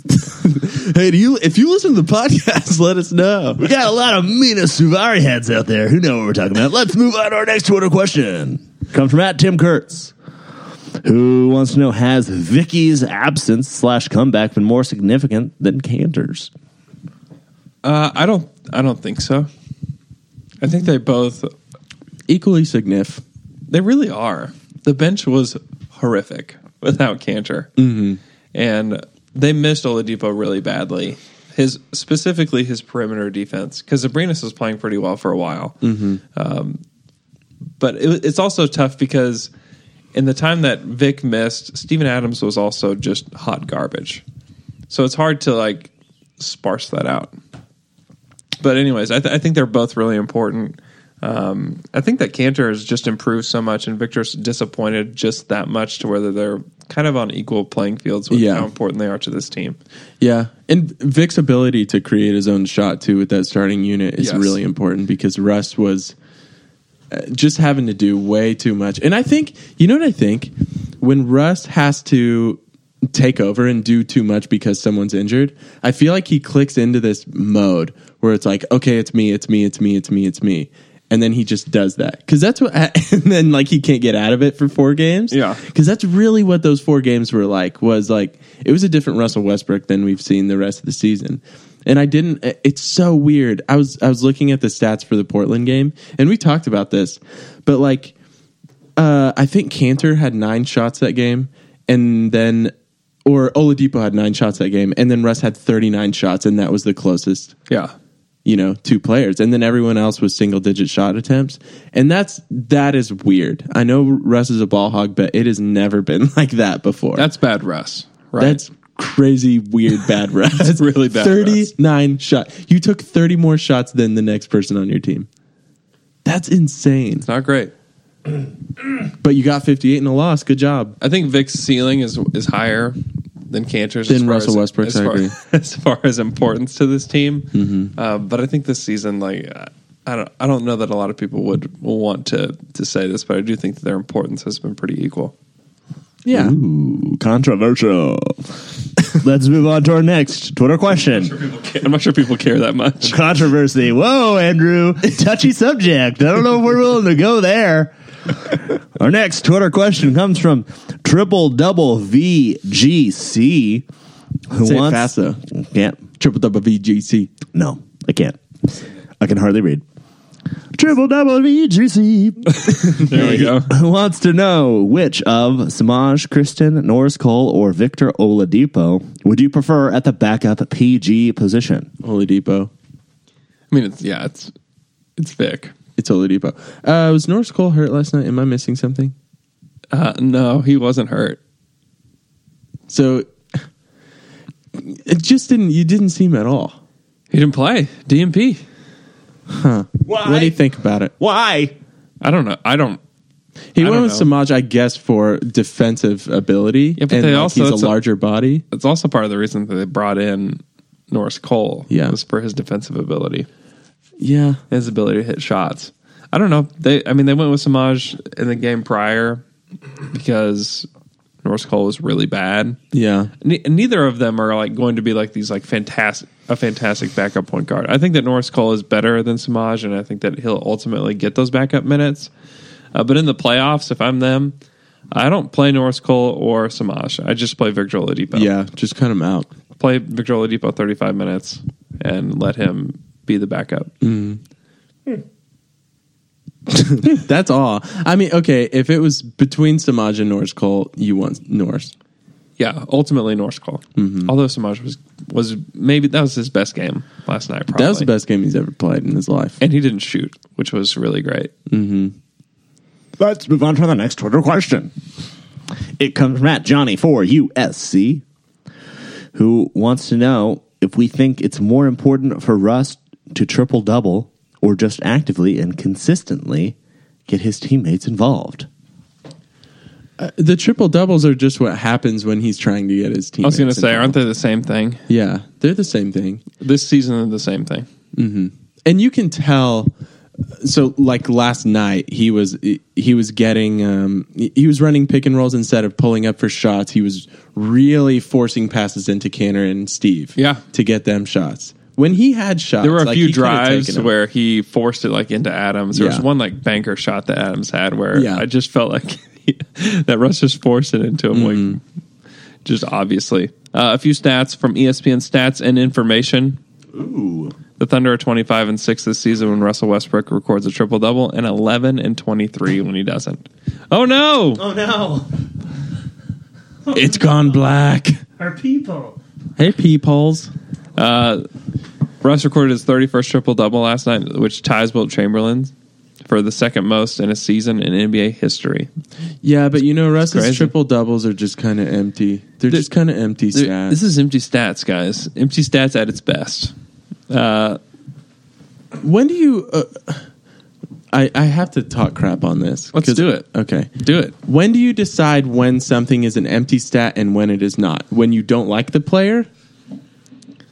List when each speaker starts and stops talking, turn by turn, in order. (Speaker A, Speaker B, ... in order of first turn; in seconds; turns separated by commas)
Speaker A: 0.3-3.7, Speaker B: 3.6-10.1, Speaker B: 11.0-16.5, Speaker C: 17.8-19.5, Speaker C: 20.6-21.5, Speaker A: 22.3-23.2, Speaker C: 23.7-27.7, Speaker A: 27.8-28.2, Speaker C: 28.5-35.8, Speaker A: 35.8-36.2, Speaker C: 36.3-36.8, Speaker C: 37.8-39.5, Speaker C: 40.1-44.2, Speaker C: 44.9-47.3, Speaker C: 48.6-59.8, Speaker A: 58.3-58.7, Speaker A: 60.2-66.2, Speaker C: 64.2-64.6, Speaker A: 67.1-98.1, Speaker C: 85.3-85.6, Speaker A: 99.0-102.7, Speaker A: 103.3-107.5, Speaker A: 108.5-117.3, Speaker C: 117.2-118.6, Speaker A: 118.4-125.3, Speaker C: 120.6-121.7, Speaker A: 126.2-127.3, Speaker C: 127.2-127.7, Speaker A: 129.2-131.0, Speaker C: 131.0-133.0, Speaker C: 133.5-145.3, Speaker A: 134.1-135.3, Speaker A: 137.5-137.9, Speaker A: 146.2-146.6, Speaker B: 146.3-148.5, Speaker B: 149.0-151.3, Speaker C: 151.3-153.2, Speaker B: 153.0-163.8, Speaker B: 164.5-166.0, Speaker A: 164.6-165.4, Speaker A: 166.2-167.3, Speaker B: 167.5-169.8, Speaker B: 170.7-181.9, Speaker C: 172.5-173.7, Speaker A: 173.2-173.4, Speaker A: 182.0-182.7, Speaker C: 183.7-184.5, Speaker C: 185.2-185.8, Speaker A: 186.0-189.1, Speaker C: 189.9-191.4, Speaker A: 192.9-193.6, Speaker A: 194.7-196.8, Speaker C: 197.3-198.6, Speaker A: 199.5-201.1, Speaker B: 200.1-200.6, Speaker B: 201.2-201.7, Speaker C: 202.2-203.0, Speaker A: 203.7-208.6, Speaker C: 203.8-204.3, Speaker C: 207.0-207.9, Speaker C: 208.7-213.5, Speaker A: 211.9-212.2, Speaker A: 214.2-214.6, Speaker C: 214.7-219.4, Speaker C: 220.1-220.9, Speaker C: 221.4-222.8, Speaker A: 222.9-223.3, Speaker C: 223.4-232.3, Speaker C: 232.9-234.6, Speaker C: 235.1-238.5, Speaker A: 238.3-239.5, Speaker C: 239.8-243.9, Speaker A: 244.0-244.4, Speaker A: 246.7-251.9, Speaker C: 252.6-258.1, Speaker A: 254.0-254.3, Speaker A: 257.8-259.6, Speaker C: 259.6-261.5, Speaker A: 261.7-262.1, Speaker B: 263.2-264.9, Speaker B: 266.0-268.2, Speaker B: 269.4-276.8, Speaker B: 277.3-278.7, Speaker A: 280.2-284.2, Speaker C: 283.4-285.0, Speaker A: 285.1-286.4, Speaker C: 286.6-287.9, Speaker A: 288.1-289.9, Speaker A: 290.5-304.1, Speaker C: 300.4-300.6, Speaker C: 302.8-311.8, Speaker A: 305.9-306.3, Speaker A: 308.1-308.4, Speaker A: 311.3-311.8, Speaker C: 312.6-316.6, Speaker B: 316.9-317.5, Speaker C: 317.8-324.6, Speaker B: 324.6-325.3, Speaker B: 326.9-327.3, Speaker A: 326.9-328.2, Speaker B: 328.4-329.2, Speaker A: 329.6-330.5, Speaker C: 331.0-331.5, Speaker C: 332.2-335.7, Speaker C: 336.2-338.9, Speaker A: 339.4-344.0, Speaker C: 340.3-340.7, Speaker C: 343.5-346.7, Speaker C: 347.3-347.8, Speaker A: 349.0-350.2, Speaker A: 351.1-359.5, Speaker C: 352.9-353.4, Speaker C: 354.0-354.3